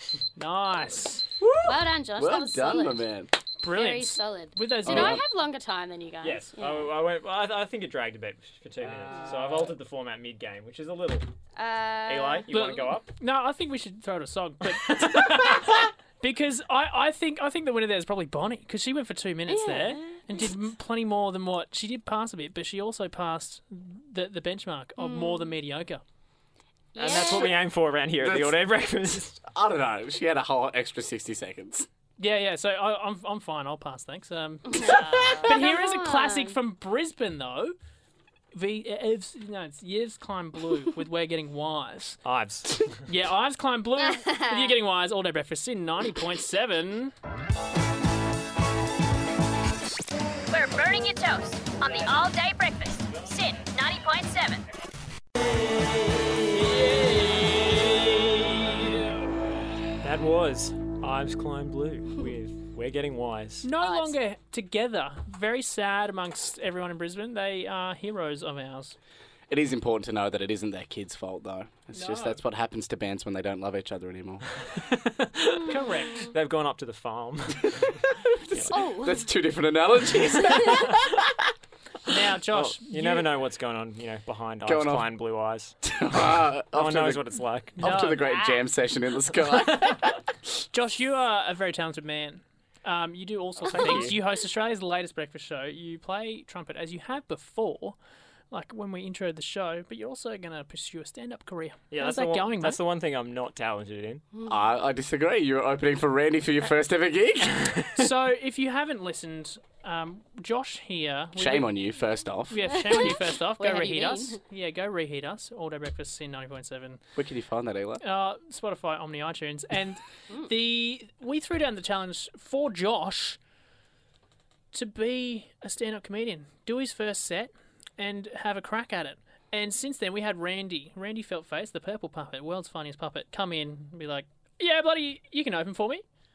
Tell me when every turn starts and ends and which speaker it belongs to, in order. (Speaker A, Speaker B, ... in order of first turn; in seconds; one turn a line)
Speaker A: 0.4-1.2
Speaker B: 1.4-3.3
Speaker C: 1.6-3.0
Speaker A: 3.6-5.2
Speaker C: 3.6-6.9
Speaker B: 4.8-5.2
Speaker D: 6.2-11.3
Speaker C: 11.6-12.5
Speaker D: 12.1-13.1
Speaker A: 12.5-26.0
Speaker D: 14.8-15.7
Speaker C: 19.5-20.2
Speaker C: 25.0-25.5
Speaker C: 26.9-27.5
Speaker D: 26.9-29.4
Speaker B: 28.2-28.6
Speaker B: 29.5-31.9
Speaker A: 32.2-37.7
Speaker C: 34.7-36.5
Speaker A: 38.5-42.2
Speaker D: 42.2-43.0
Speaker A: 43.0-47.1
Speaker C: 44.0-44.8
Speaker E: 50.5-54.6
Speaker A: 56.5-59.1
Speaker D: 60.0-63.6
Speaker A: 63.6-69.0
Speaker C: 63.8-64.1
Speaker B: 69.5-74.5
Speaker A: 71.9-72.4
Speaker D: 74.7-78.7
Speaker A: 75.7-76.3
Speaker B: 78.5-81.3
Speaker C: 78.7-79.3
Speaker A: 82.1-83.3
Speaker D: 82.5-85.8
Speaker B: 84.6-85.1
Speaker B: 85.8-87.2
Speaker D: 86.7-87.8
Speaker B: 87.8-90.2
Speaker A: 87.8-88.6
Speaker A: 90.7-98.0
Speaker D: 93.7-94.2
Speaker A: 98.5-102.8
Speaker D: 101.9-104.2
Speaker B: 104.5-107.7
Speaker A: 108.0-111.7
Speaker B: 111.3-113.0
Speaker A: 112.5-117.0
Speaker C: 112.7-114.4
Speaker B: 117.2-118.0
Speaker A: 118.0-123.4
Speaker A: 124.7-136.0